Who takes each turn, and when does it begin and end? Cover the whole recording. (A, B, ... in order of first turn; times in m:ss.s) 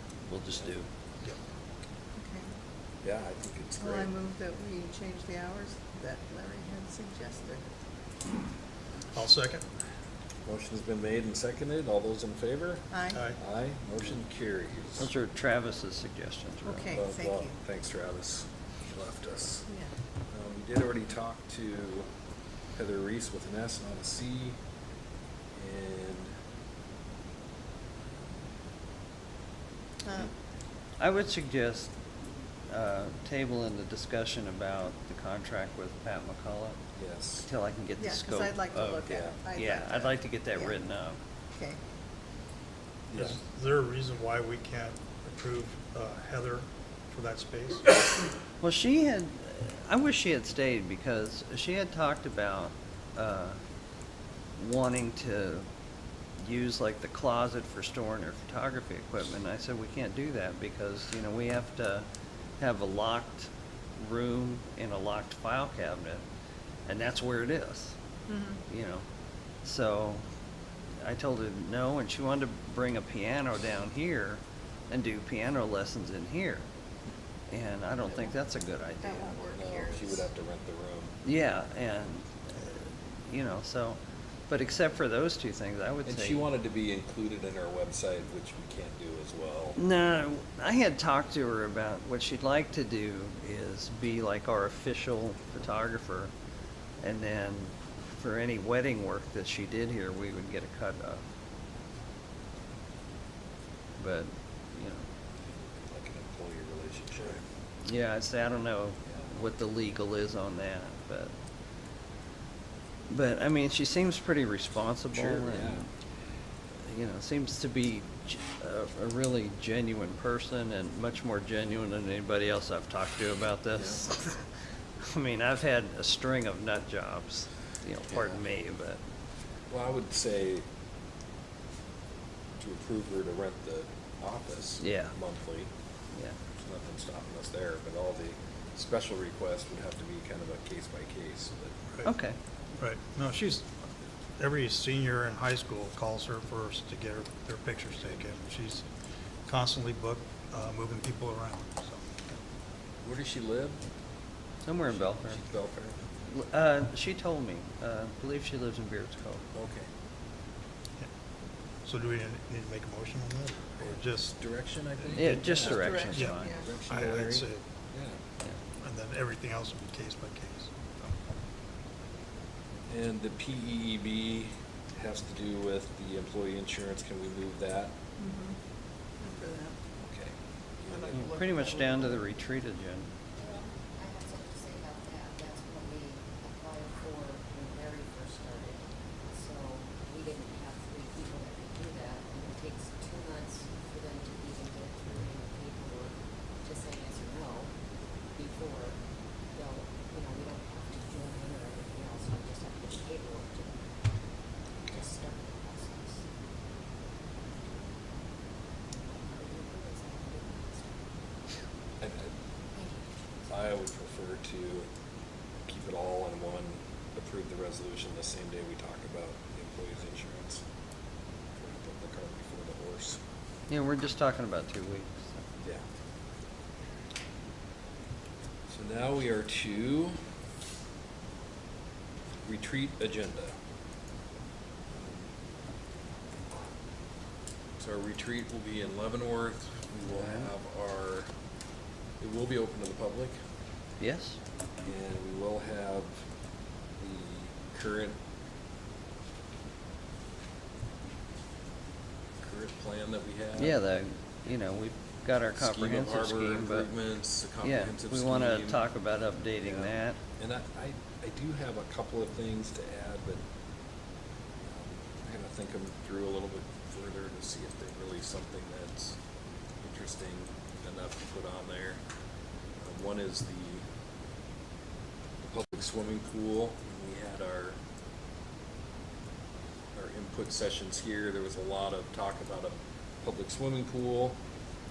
0:00.2-0:00.9 A
0:02.2-0:02.5 B
0:03.0-0:04.1 C
0:03.8-0:07.6 B
0:09.1-0:09.7 D
0:10.4-0:15.1 C
0:12.9-0:13.2 B
0:13.1-0:13.4 D
0:15.0-0:17.0 A
0:16.6-0:17.6 B
0:16.9-0:19.7 C
0:20.3-0:22.1 C
0:22.8-0:24.6 C
0:25.6-0:26.3 C
0:30.0-0:30.3 B
0:31.0-0:31.9 A
0:32.7-0:36.8 A
0:37.0-0:37.5 C
0:37.4-0:41.2 A
0:38.0-0:40.8 B
0:39.1-0:39.4 C
0:41.5-0:41.8 B
0:43.1-0:43.4 C
0:43.2-0:47.8 D
0:48.6-0:53.6 A
0:54.6-0:55.6 A
0:56.4-1:02.1 A
1:02.6-1:06.2 A
1:06.9-1:08.0 A
1:08.3-1:08.6 B
1:08.7-1:09.0 A
1:09.6-1:10.2 A
1:11.0-1:16.6 A
1:17.5-1:19.4 A
1:19.0-1:20.2 B
1:19.4-1:21.2 C
1:21.2-1:26.5 A
1:26.1-1:29.8 C
1:29.8-1:36.3 A
1:37.0-1:41.2 A
1:44.0-1:45.1 A
1:45.6-1:47.4 C
1:47.8-1:51.3 A
1:53.1-1:55.9 A
1:55.1-1:55.9 C
1:56.9-2:04.4 A
2:03.8-2:04.0 C
2:05.0-2:09.0 A
2:09.7-2:10.6 C
2:12.6-2:15.7 C
2:14.8-2:15.2 A
2:16.6-2:21.8 C
2:22.0-2:22.4 A
2:22.8-2:23.7 D
2:24.4-2:28.9 D
2:29.5-2:32.1 D
2:33.0-2:33.8 C
2:34.6-2:35.4 A
2:34.9-2:36.0 C
2:36.3-2:39.4 A
2:39.5-2:39.9 C
2:41.9-2:44.4 D
2:43.8-2:48.2 C
2:45.2-2:46.5 A
2:45.7-2:46.7 B
2:46.1-2:47.6 D
2:48.8-2:50.7 D
2:52.9-2:57.9 C
2:58.2-2:58.6 B
2:59.2-2:59.8 B
3:00.0-3:01.5 C
3:01.1-3:03.1 A
3:03.4-3:17.7 E
3:18.3-3:19.0 E
3:19.5-3:23.7 E
3:24.8-3:26.2 E
3:29.1-3:31.0 E
3:32.0-3:32.3 C
3:32.7-3:33.1 E
3:33.4-3:34.9 C
3:35.6-3:40.6 C
3:41.6-3:43.2 C
3:43.7-3:45.4 A
3:48.7-3:50.2 C
3:52.4-3:53.6 C
3:54.9-3:55.3 C
3:57.8-4:01.3 C
4:00.1-4:00.5 A
4:02.2-4:03.4 C
4:04.0-4:04.4 A
4:04.8-4:06.2 C
4:07.0-4:08.2 C
4:12.4-4:13.8 C
4:13.6-4:16.9 A
4:15.6-4:18.9 C
4:17.6-4:20.2 A
4:19.6-4:23.4 C
4:24.6-4:29.2 C
4:29.8-4:32.0 C
4:32.8-4:33.8 C
4:35.4-4:37.8 C
4:40.0-4:44.4 C